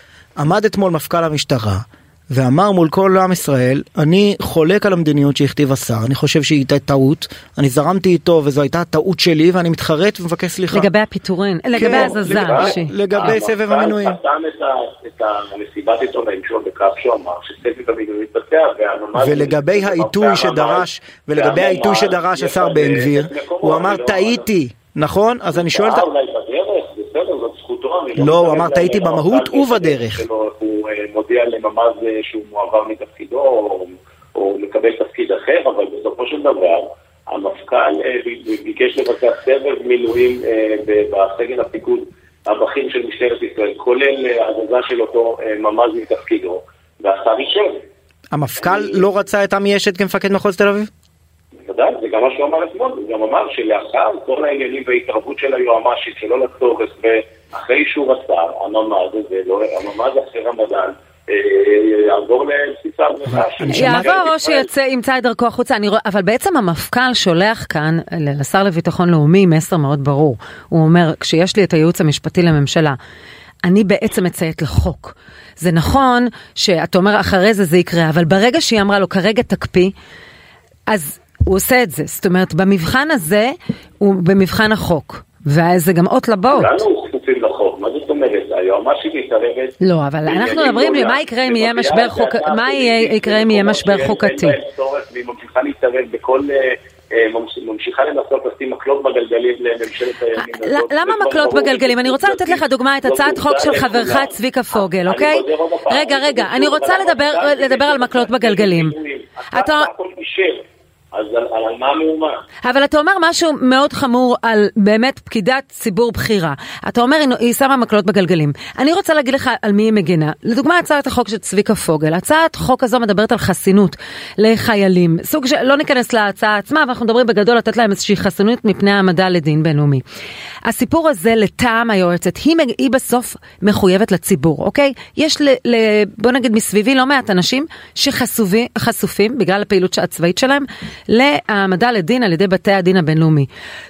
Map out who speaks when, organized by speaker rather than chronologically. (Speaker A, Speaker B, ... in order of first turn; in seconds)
Speaker A: 0.4-10.9, 11.8-14.2, 19.1-26.1, 28.2-30.2, 48.3-50.9, 63.3-64.2
Speaker B: 10.7-13.3, 63.7-73.0, 73.7-79.9, 80.9-86.7, 89.8-94.6, 100.4-108.9, 109.5-109.9, 112.6-130.0, 130.7-143.5
Speaker C: 11.7-24.5, 25.5-47.8, 48.6-49.1, 51.6-64.7, 86.5-89.7, 90.2-110.6, 111.1-112.4